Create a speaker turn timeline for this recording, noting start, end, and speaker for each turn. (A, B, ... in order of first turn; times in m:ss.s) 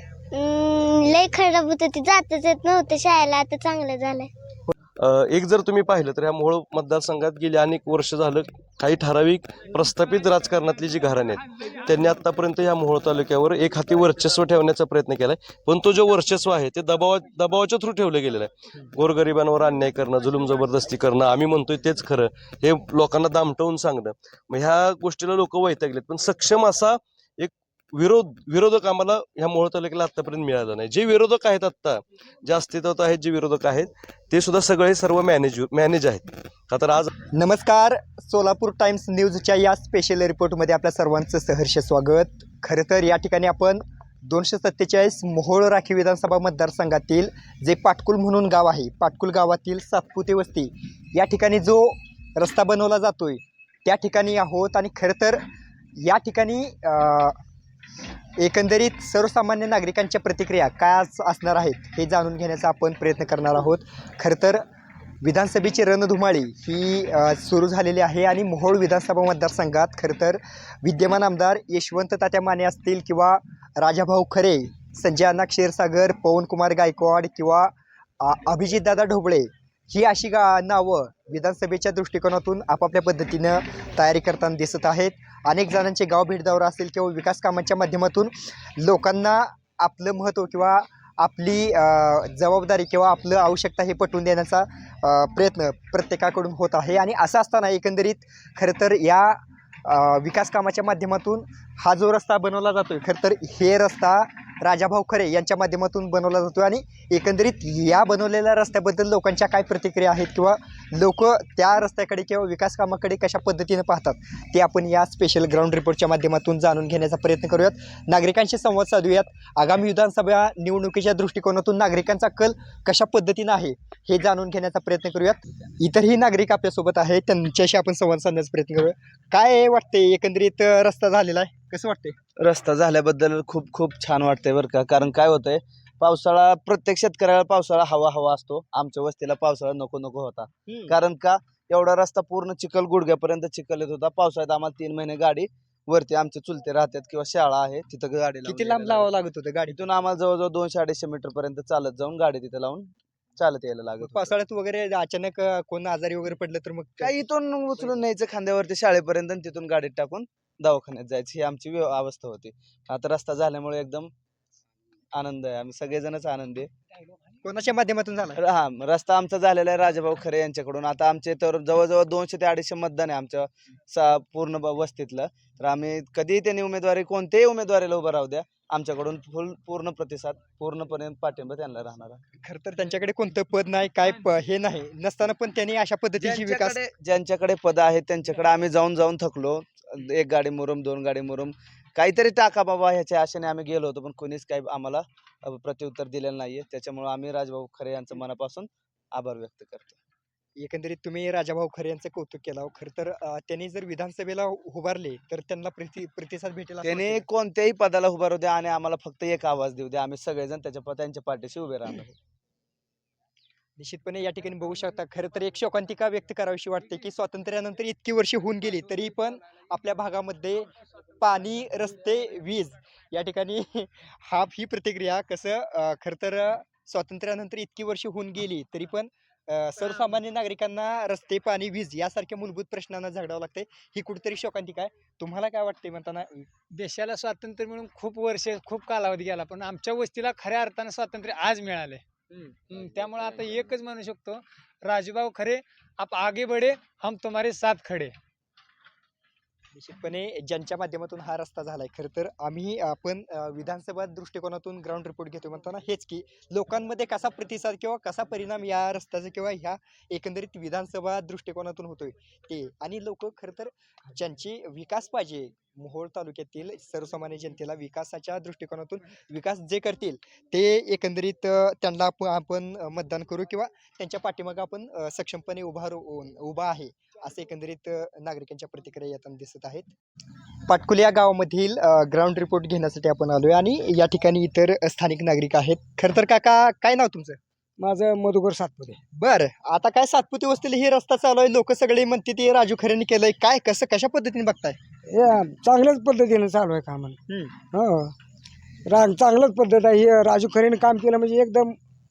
0:00.3-0:04.3 A
0:05.0-0:37.1 B
0:37.3-0:55.4 C
0:56.0-0:57.4 C
0:58.4-1:04.6 C
1:05.2-2:12.2 C
2:12.4-2:29.1 D
2:20.7-2:21.0 C
2:28.4-2:29.8 C
2:29.7-2:34.4 D
2:34.0-2:37.2 C
2:37.0-2:44.1 D
2:45.1-2:46.7 D
2:47.4-2:48.4 C
2:48.4-3:02.2 D
3:02.3-3:06.8 C
3:06.2-3:20.0 D
3:20.6-3:27.2 C
3:26.8-3:32.2 D
3:33.8-3:56.5 C
3:56.8-4:02.0 E
4:02.7-4:08.1 E
4:09.7-4:39.9 C
4:40.7-4:47.4 C
4:47.8-4:49.0 F
4:49.1-4:54.8 C
4:55.1-4:57.2 F
4:57.3-4:57.5 C
4:57.7-4:58.1 F
4:58.8-5:01.8 F